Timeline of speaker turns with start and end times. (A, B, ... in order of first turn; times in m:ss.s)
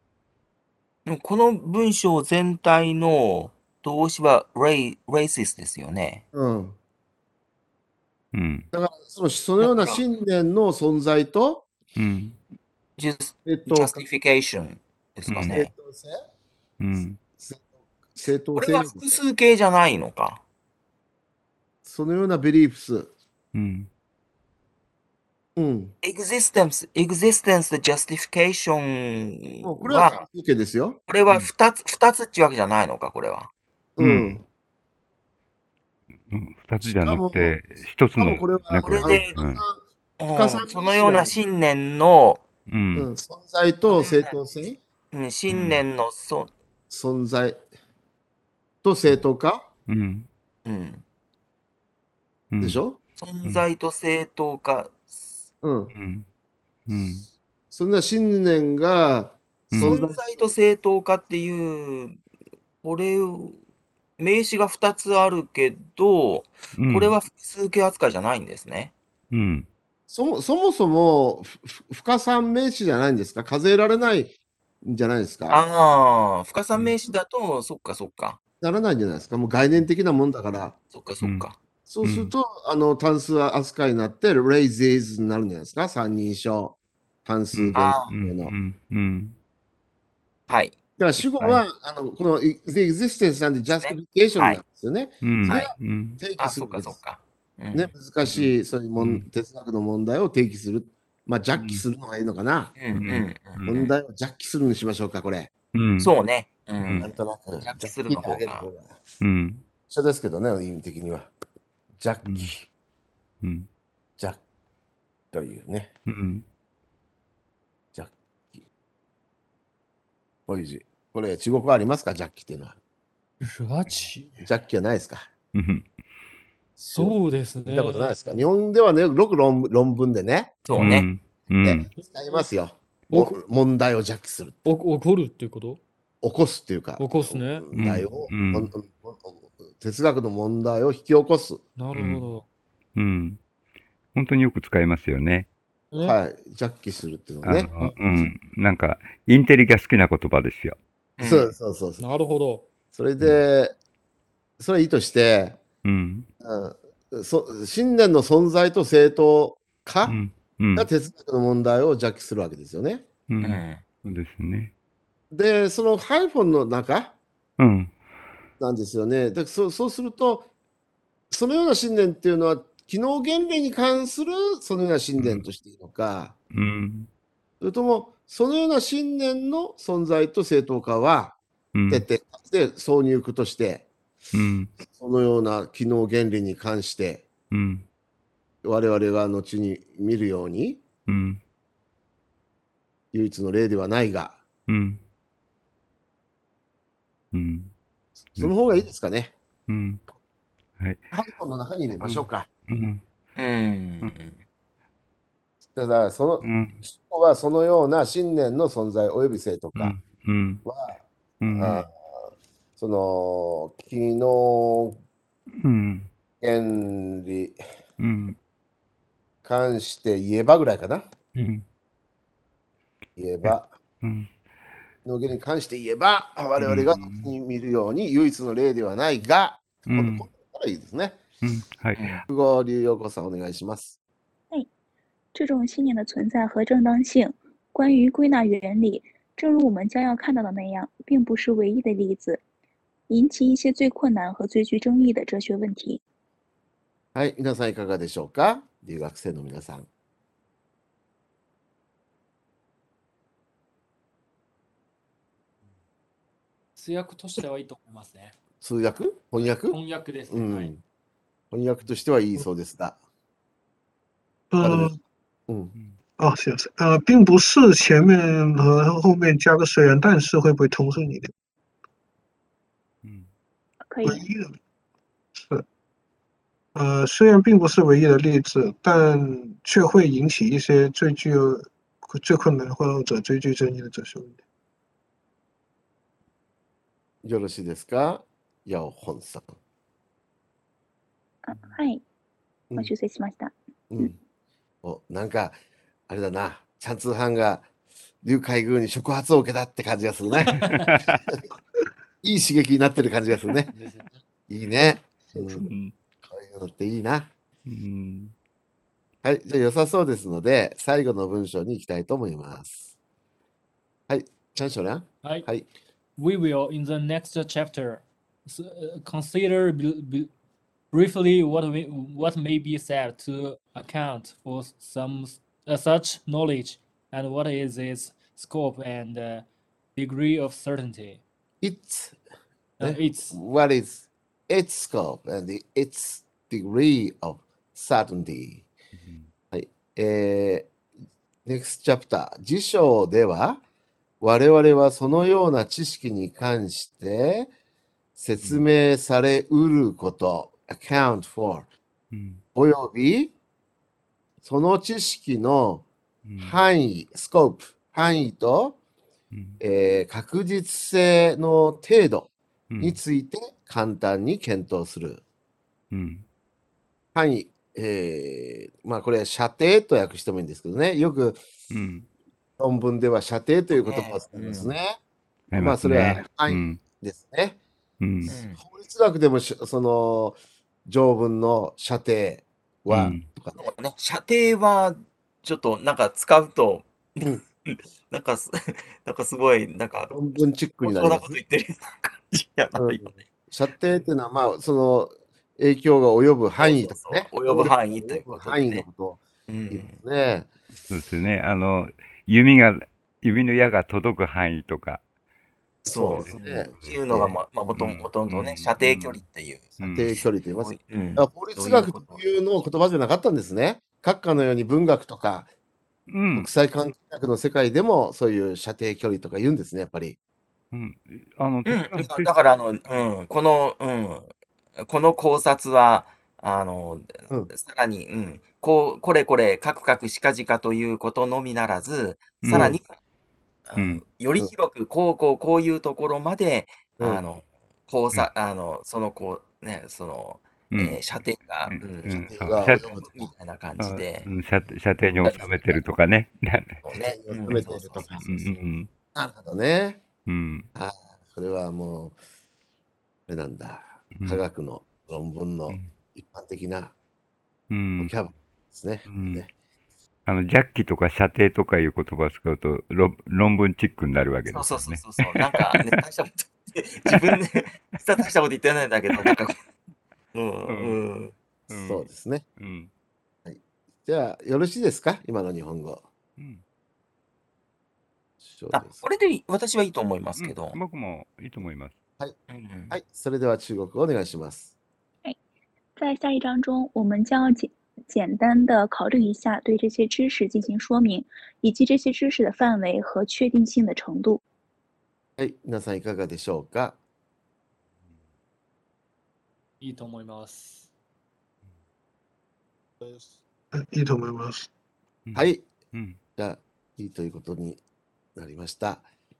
0:01.0-0:06.2 A
0:06.3-0:06.8 B
0:08.3-0:08.7 C
0:08.7-0:11.7 B
0:09.6-0:10.0 A
0:12.0-0:12.4 C
0:13.0-0:15.7 A
0:13.4-0:14.0 B
0:15.3-0:15.6 C
0:15.4-0:16.2 B
0:16.8-0:17.2 C
0:17.4-0:19.2 B
0:18.5-0:20.4 A
0:21.8-0:23.1 B
0:23.5-0:23.9 C
0:25.6-0:25.9 B
0:26.0-0:30.2 A
0:29.6-0:31.0 B
0:31.1-0:33.5 A
0:34.0-0:34.4 B
0:34.0-0:34.4 C
0:36.3-0:39.6 C
0:36.8-0:37.6 B
0:38.2-0:39.8 B
0:38.8-0:39.4 A
0:40.2-0:42.4 A
0:40.3-0:41.4 B
0:42.7-0:43.1 C
0:42.9-0:44.8 B
0:43.9-0:44.4 A
0:45.1-0:46.5 A
0:45.5-0:45.8 C
0:46.9-0:47.6 B
0:48.8-0:49.7 B
0:49.9-0:50.3 C
0:50.6-0:51.0 A
0:52.5-0:52.8 C
0:52.6-0:53.0 B
0:53.2-0:55.4 A
0:55.6-0:55.9 B
0:55.9-0:56.2 C
0:56.9-0:57.2 C
0:57.7-1:00.2 B
0:59.7-1:00.0 C
0:59.8-1:02.2 A
1:02.8-1:03.6 A
1:04.2-1:08.9 A
1:06.8-1:07.2 C
1:09.3-1:09.7 C
1:10.1-1:15.6 B
1:15.5-1:18.4 A
1:18.6-1:20.8 B
1:20.9-1:21.6 A
1:21.2-1:21.5 C
1:21.9-1:28.5 B
1:22.0-1:22.3 C
1:27.5-1:29.3 C
1:27.7-1:28.1 A
1:30.5-1:30.8 A
1:31.0-1:37.0 B
1:31.2-1:31.6 C
1:33.7-1:34.6 A
1:35.2-1:36.2 C
1:36.4-1:37.9 A
1:37.7-1:42.8 B
1:39.0-1:39.2 C
1:41.6-1:41.8 C
1:42.8-1:43.9 A
1:42.9-1:43.8 C
1:43.6-1:45.5 B
1:45.7-1:46.1 C
1:46.0-1:47.1 A
1:46.8-1:47.1 C
1:47.0-1:49.0 B
1:47.6-1:48.7 A
1:49.2-1:49.6 C
1:49.9-1:51.3 B
1:52.0-1:52.6 B
1:52.2-1:52.5 C
1:53.4-1:53.7 C
1:55.3-1:55.9 B
1:56.1-1:56.4 C
1:57.9-1:58.6 B
2:00.5-2:02.8 B
2:03.4-2:04.4 D
2:04.4-2:05.3 B
2:05.5-2:05.9 C
2:06.8-2:10.6 B
2:06.9-2:08.4 D
2:10.6-2:11.1 A
2:10.7-2:11.9 C
2:11.6-2:14.6 B
2:13.1-2:13.4 D
2:14.6-2:15.8 D
2:16.2-2:21.6 B
2:17.0-2:17.7 D
2:17.7-2:18.7 C
2:21.8-2:22.4 D
2:21.9-2:22.3 C
2:23.0-2:23.4 C
2:24.1-2:25.5 C
2:25.9-2:26.2 D
2:26.0-2:27.9 B
2:27.4-2:30.8 C
2:31.2-2:31.5 A
2:31.2-2:32.0 B
2:32.0-2:32.7 D
2:32.9-2:33.7 B
2:34.6-2:35.6 B
2:35.8-2:36.3 C
2:36.4-2:40.2 B
2:40.0-2:40.9 C
2:40.8-2:43.0 B
2:43.3-2:44.7 C
2:43.4-2:43.8 A
2:45.3-2:47.2 B
2:47.6-2:47.9 C
2:48.6-2:50.5 B
2:51.3-2:56.4 B
2:55.2-2:55.4 C
2:56.5-2:57.1 C
2:57.6-3:01.4 B
3:01.7-3:02.0 C
3:01.9-3:03.9 B
3:04.3-3:04.7 C
3:04.8-3:07.3 B
3:07.5-3:07.8 C
3:08.6-3:10.8 B
3:11.1-3:11.4 C
3:13.1-3:14.4 B
3:14.7-3:15.0 C
3:17.3-3:17.7 C
3:18.4-3:18.8 C
3:18.4-3:19.3 B
3:19.7-3:20.0 C
3:21.1-3:22.5 B
3:22.0-3:23.0 C
3:23.4-3:24.4 A
3:25.7-3:30.0 B
3:26.4-3:26.8 C
3:29.8-3:30.6 C
3:30.6-3:31.0 B
3:31.4-3:31.9 C
3:31.5-3:31.9 B
3:32.8-3:35.0 B
3:35.6-3:36.1 C
3:36.4-3:37.6 B
3:38.0-3:38.4 C
3:39.4-3:41.0 B
3:41.3-3:41.6 C
3:43.2-3:43.7 B
3:43.4-3:44.3 C
3:45.0-3:51.2 B
3:46.6-3:47.3 C
3:49.9-3:50.3 C
3:51.4-3:52.2 C
3:52.0-3:52.2 A
3:52.3-3:54.0 B
3:55.3-4:02.4 E
4:03.1-4:06.0 E
4:07.1-4:09.8 B
4:16.8-4:18.3 D
4:18.6-4:20.8 B
4:19.4-4:20.7 D
4:21.5-4:23.0 B
4:24.5-4:25.0 F
4:24.6-4:24.9 B
4:26.2-4:31.3 F
4:33.0-4:33.3 C
4:33.9-4:34.2 E
4:34.0-4:34.6 F
4:35.4-4:35.6 F
4:36.7-4:44.4 F
4:47.2-4:49.5 B
4:51.4-4:52.0 E
4:52.7-4:54.1 E
4:53.9-4:54.2 B
4:54.8-4:55.6 B
4:56.1-4:57.7 B
4:58.2-5:00.7 B
5:00.5-5:00.9 D
5:00.7-5:01.1 C
5:02.2-5:03.7 B
5:03.7-5:04.2 D
5:04.5-5:05.6 B
5:05.6-5:05.9 C
5:06.2-5:07.3 B
5:07.7-5:08.3 C
5:09.2-5:12.9 B
5:14.1-5:15.6 B
5:15.2-5:15.5 D
5:16.2-5:20.3 D
5:20.9-5:29.4 D
5:30.0-5:31.2 D
5:31.6-5:32.2 B
5:32.8-5:33.4 D
5:32.8-5:38.7 B
5:38.9-5:39.3 C
5:39.5-5:40.7 B
5:41.4-5:43.6 B
5:44.2-5:47.5 B
5:48.2-5:51.7 B
5:52.1-5:52.4 C
5:52.5-5:53.3 B
5:54.4-5:55.9 B
5:56.2-5:56.6 C
5:56.4-5:58.8 B
5:59.3-5:59.6 C
5:59.6-6:05.2 B
6:02.7-6:03.0 C
6:05.9-6:06.2 C
6:07.1-6:11.4 B
6:11.7-6:12.1 C
6:12.6-6:15.0 B
6:13.7-6:14.7 A
6:15.5-6:16.8 C
6:15.5-6:17.6 B
6:18.0-6:18.3 C
6:18.2-6:23.7 B
6:18.3-6:18.6 A
6:22.9-6:23.3 C
6:23.6-6:30.2 A
6:30.1-6:31.4 B
6:30.8-6:33.2 A
6:32.8-6:40.5 B
6:36.6-6:38.8 A
6:39.5-6:40.0 A
6:40.9-6:45.0 C
6:45.8-6:47.3 B
6:45.9-6:52.2 A
6:46.2-6:46.9 C
6:47.8-6:49.2 C
6:49.8-6:50.1 C
6:49.9-6:55.5 B
6:56.1-6:56.5 C
6:56.3-7:00.2 B
7:00.7-7:02.3 C
7:01.6-7:12.8 A
7:12.4-7:12.8 C
7:13.7-7:24.3 A
7:13.8-7:14.0 C
7:20.7-7:21.0 C
7:21.7-7:22.8 C
7:22.3-7:23.3 B
7:23.8-7:26.8 C
7:25.2-7:25.8 A
7:26.8-7:28.4 B
7:26.9-7:28.2 A
7:28.2-7:28.9 C
7:29.1-7:30.0 B
7:30.2-7:30.7 C
7:30.7-7:32.2 B
7:33.3-7:36.9 B
7:34.2-7:34.4 C
7:37.7-7:38.1 C
7:38.0-7:39.5 B
7:39.1-7:39.4 C
7:40.2-7:45.9 C
7:44.5-7:49.6 A
7:50.3-7:51.3 A
7:50.7-7:51.0 C
7:51.7-7:52.0 C
7:51.8-7:52.4 B
7:52.6-7:52.9 C
7:53.4-7:56.0 B
7:58.4-7:59.0 B
7:58.7-8:00.8 A
8:00.4-8:02.0 C
8:02.5-8:03.0 A
8:02.9-8:04.7 B
8:06.0-8:14.4 E
8:15.4-8:17.0 B
8:19.8-8:20.9 D
8:23.0-8:23.4 D
8:23.7-8:24.7 F
8:25.2-8:26.2 C
8:25.3-8:25.7 B
8:26.4-8:27.8 B
8:28.4-8:29.1 B